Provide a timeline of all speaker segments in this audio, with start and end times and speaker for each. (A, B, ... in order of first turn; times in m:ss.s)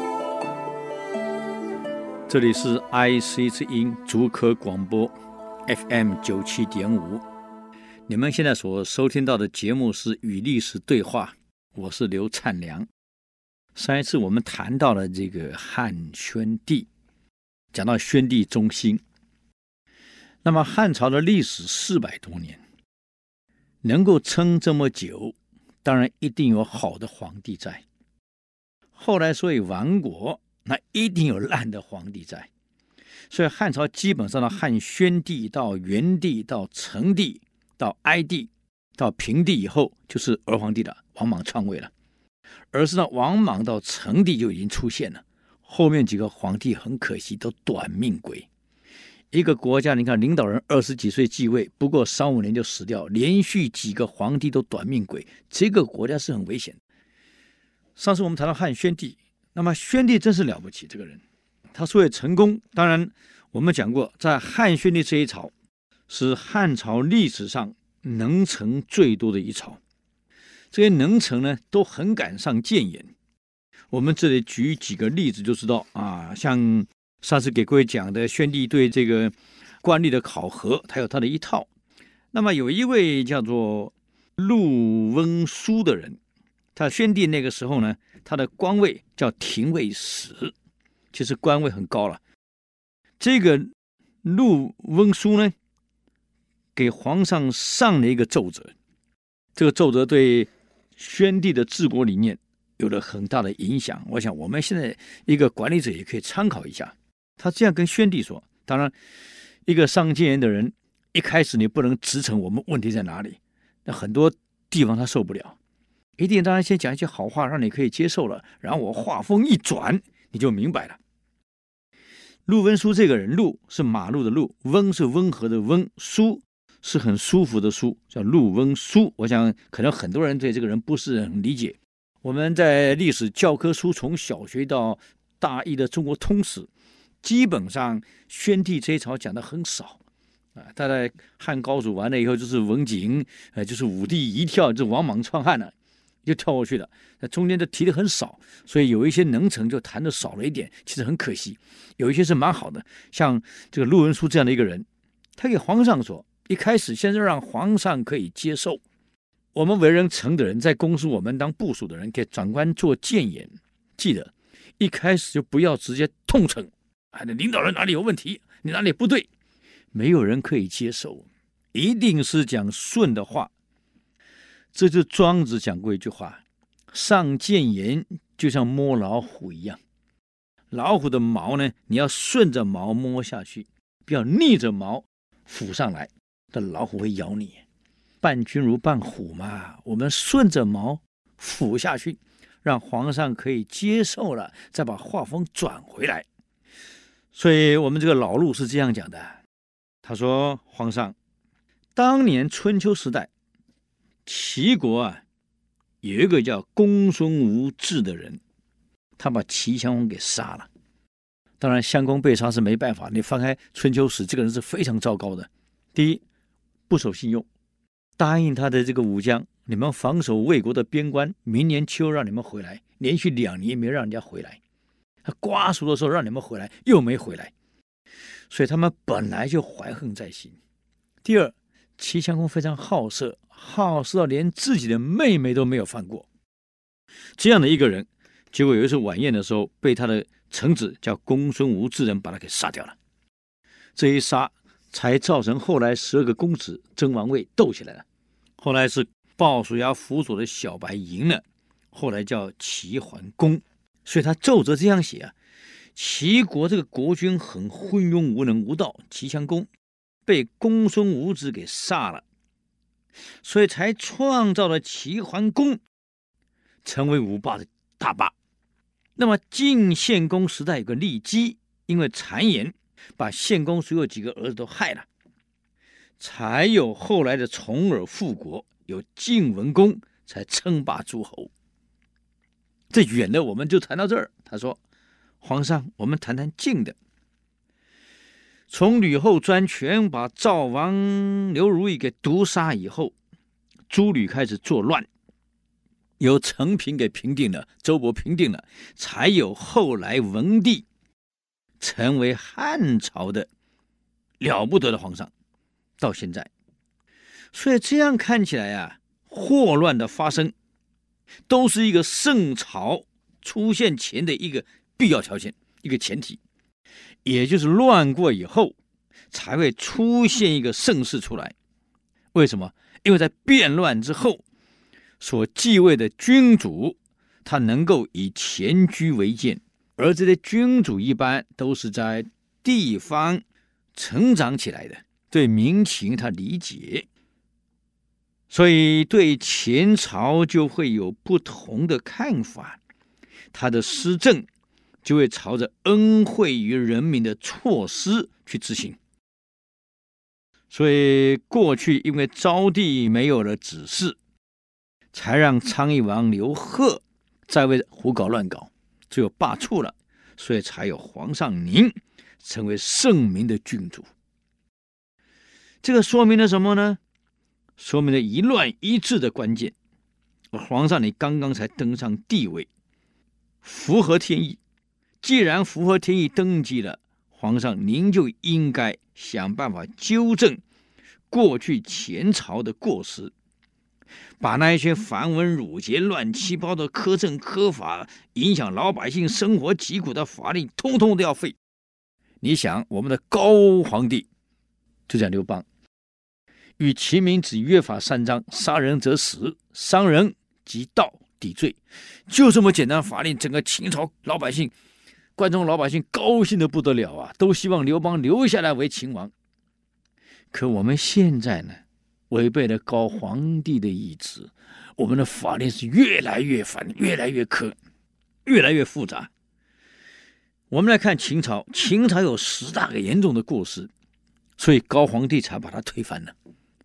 0:02.3-0:05.1 A
0:05.6-0:07.2 A
0:08.1-0:12.9 A
0:13.7-0:16.9 A
0:17.7-0:19.0 A
0:20.4-0:22.6 A
0:23.8-0:27.8 A
0:28.9-0:32.5 A
0:33.3-0:41.9 A
0:42.7-0:48.5 A
0:49.3-0:56.8 A
0:58.0-1:01.2 A
1:01.7-1:05.5 A
1:06.1-1:09.8 A
1:10.7-1:13.1 A
1:13.9-1:21.7 A
1:22.3-1:26.2 A
1:26.7-1:30.5 A
1:31.1-1:32.2 A
1:33.2-1:33.7 A
1:34.2-1:35.5 A
1:36.7-1:38.7 A
1:39.5-1:48.9 A
1:49.6-1:55.6 A
1:56.2-2:01.0 A
2:02.4-2:16.7 A
2:17.2-2:20.0 A
2:20.6-2:34.8 A
2:35.4-2:38.8 A
2:39.5-2:49.3 A
2:49.9-2:53.5 A
2:54.7-2:59.8 A
3:00.7-3:07.6 A
3:08.2-3:16.2 A
3:17.3-3:19.4 A
3:20.0-3:21.1 A
3:21.9-3:23.3 A
3:24.2-3:25.2 A
3:26.0-3:28.4 A
3:29.2-3:30.7 A
3:31.6-3:36.2 A
3:36.9-3:37.5 A
3:38.2-3:44.6 A
3:45.2-3:47.5 A
3:48.5-3:50.6 A
3:51.2-3:56.3 A
3:57.4-4:03.0 A
4:04.0-4:08.0 A
4:08.6-4:15.3 A
4:15.9-4:19.7 A
4:20.2-4:22.2 A
4:23.4-4:25.8 A
4:26.8-4:28.3 A
4:29.2-4:35.1 A
4:36.2-4:41.5 A
4:42.9-4:44.8 A
4:45.4-4:47.0 A
4:48.7-4:53.1 A
4:53.9-4:55.1 A
4:56.2-5:00.8 A
5:01.8-5:03.5 A
5:04.4-5:05.3 A
5:06.0-5:06.5 A
5:07.5-5:10.5 A
5:11.5-5:16.4 A
5:17.2-5:18.7 A
5:19.3-5:21.5 A
5:22.3-5:24.4 A
5:25.2-5:33.4 A
5:33.9-5:37.1 A
5:38.5-5:42.8 A
5:43.5-5:44.5 A
5:45.0-5:49.0 A
5:50.7-5:54.2 A
5:55.1-6:04.1 A
6:05.8-6:07.0 A
6:07.8-6:09.7 A
6:10.5-6:12.7 A
6:13.6-6:14.6 A
6:15.2-6:20.6 A
6:21.3-6:23.3 A
6:24.4-6:31.6 A
6:32.4-6:34.3 A
6:35.1-6:35.6 A
6:36.8-6:44.7 A
6:45.4-6:49.3 A
6:50.5-6:57.7 A
6:58.4-6:59.3 A
7:00.7-7:03.9 A
7:04.6-7:06.3 A